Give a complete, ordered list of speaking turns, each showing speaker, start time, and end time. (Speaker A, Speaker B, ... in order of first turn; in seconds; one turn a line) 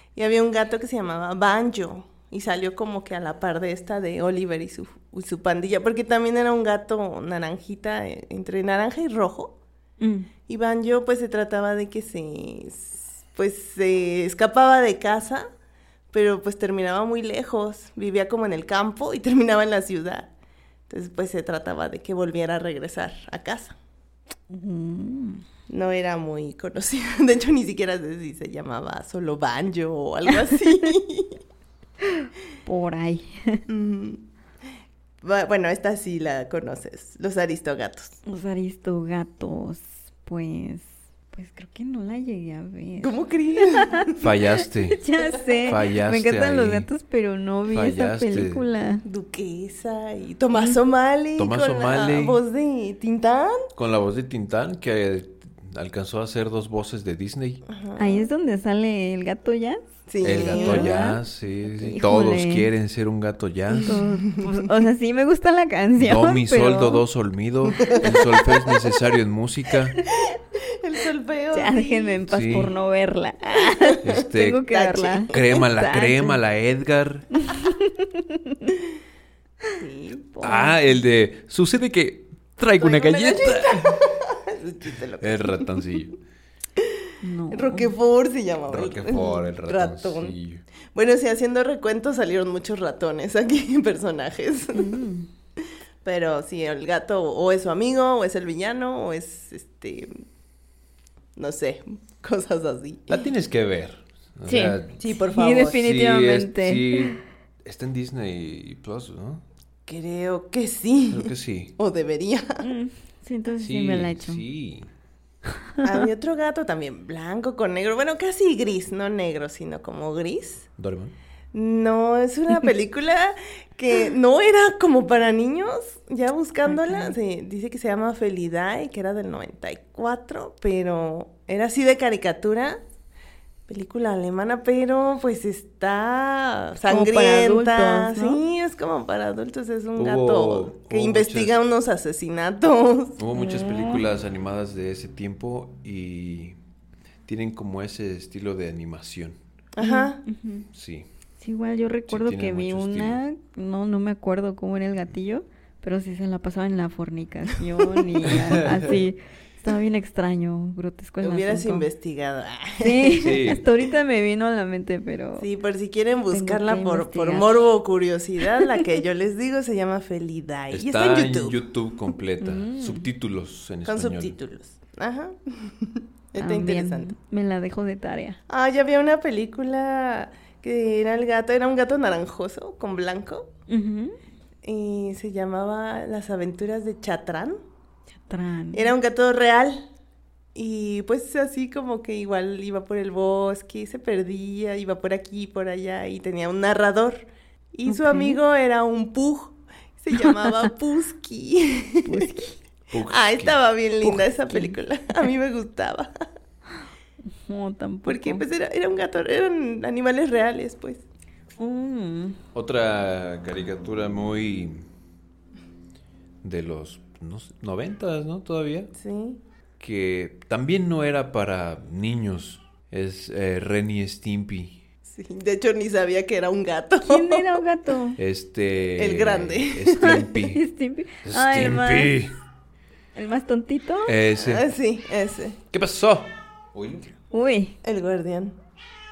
Speaker A: 0.1-9.6
Speaker B: 10.0-10.3
Speaker A: 10.5-15.5
Speaker A: 16.1-20.3
Speaker A: 20.9-23.8
Speaker B: 24.5-25.4
Speaker A: 25.7-31.4
Speaker B: 32.0-33.6
Speaker A: 33.7-34.2
Speaker A: 35.2-38.2
Speaker B: 38.2-49.0
Speaker A: 43.0-44.1
Speaker C: 44.2-45.0
Speaker A: 45.3-45.7
Speaker C: 45.7-46.9
Speaker C: 47.7-48.6
Speaker A: 49.0-53.7
Speaker C: 51.4-52.4
Speaker C: 53.8-57.6
Speaker A: 57.6-58.3
Speaker B: 58.0-62.7
Speaker A: 60.1-61.0
Speaker C: 60.2-64.0
Speaker A: 63.8-64.5
Speaker B: 63.8-67.0
Speaker C: 66.0-70.0
Speaker A: 67.8-68.5
Speaker A: 70.1-72.2
Speaker B: 71.5-76.4
Speaker C: 72.3-72.7
Speaker A: 73.5-74.0
Speaker C: 74.0-74.7
Speaker A: 74.7-75.4
Speaker C: 75.3-77.3
Speaker B: 77.4-78.7
Speaker A: 79.8-80.7
Speaker C: 80.4-84.1
Speaker A: 82.8-85.8
Speaker C: 85.2-86.1
Speaker A: 86.8-90.3
Speaker B: 87.2-87.9
Speaker C: 88.7-90.6
Speaker A: 90.9-95.0
Speaker B: 94.7-95.3
Speaker A: 96.0-100.2
Speaker A: 101.3-103.2
Speaker C: 103.1-105.0
Speaker B: 104.5-107.2
Speaker A: 105.0-105.8
Speaker C: 105.7-109.4
Speaker A: 109.9-112.7
Speaker C: 111.1-111.7
Speaker B: 112.6-114.4
Speaker C: 113.6-114.9
Speaker A: 115.8-120.7
Speaker C: 120.8-121.1
Speaker A: 121.5-132.8
Speaker B: 126.7-127.2
Speaker A: 133.7-143.2
Speaker B: 136.8-138.4
Speaker C: 140.0-141.5
Speaker C: 143.2-146.6
Speaker B: 143.3-144.0
Speaker C: 147.2-149.4
Speaker A: 149.8-150.2
Speaker B: 149.8-150.7
Speaker C: 150.7-151.1
Speaker B: 151.4-161.9
Speaker C: 152.1-153.2
Speaker A: 157.8-158.1
Speaker C: 158.2-159.0
Speaker A: 161.2-163.3
Speaker B: 162.8-165.5
Speaker C: 163.1-163.7
Speaker A: 165.4-171.6
Speaker B: 166.3-167.7
Speaker C: 170.7-174.4
Speaker B: 172.4-173.1
Speaker A: 173.8-177.1
Speaker B: 176.4-178.4
Speaker A: 178.5-183.5
Speaker B: 183.7-184.2
Speaker A: 184.6-187.6
Speaker B: 188.2-188.9
Speaker A: 188.7-189.8
Speaker A: 190.5-202.3
Speaker B: 197.9-198.4
Speaker B: 200.2-200.6
Speaker B: 202.1-202.6
Speaker C: 202.9-203.6
Speaker A: 203.0-206.2
Speaker B: 204.0-205.3
Speaker B: 207.5-208.4
Speaker A: 208.1-211.0
Speaker B: 211.6-212.4
Speaker C: 212.5-214.8
Speaker C: 216.4-218.9
Speaker A: 218.9-219.4
Speaker C: 219.8-224.8
Speaker A: 225.1-227.6
Speaker B: 227.0-228.2
Speaker C: 228.2-230.6
Speaker A: 229.0-230.2
Speaker B: 230.0-232.2
Speaker C: 231.2-232.3
Speaker B: 233.1-234.2
Speaker C: 234.0-234.7
Speaker A: 234.4-235.6
Speaker C: 235.7-237.1
Speaker B: 237.3-237.8
Speaker A: 237.8-238.6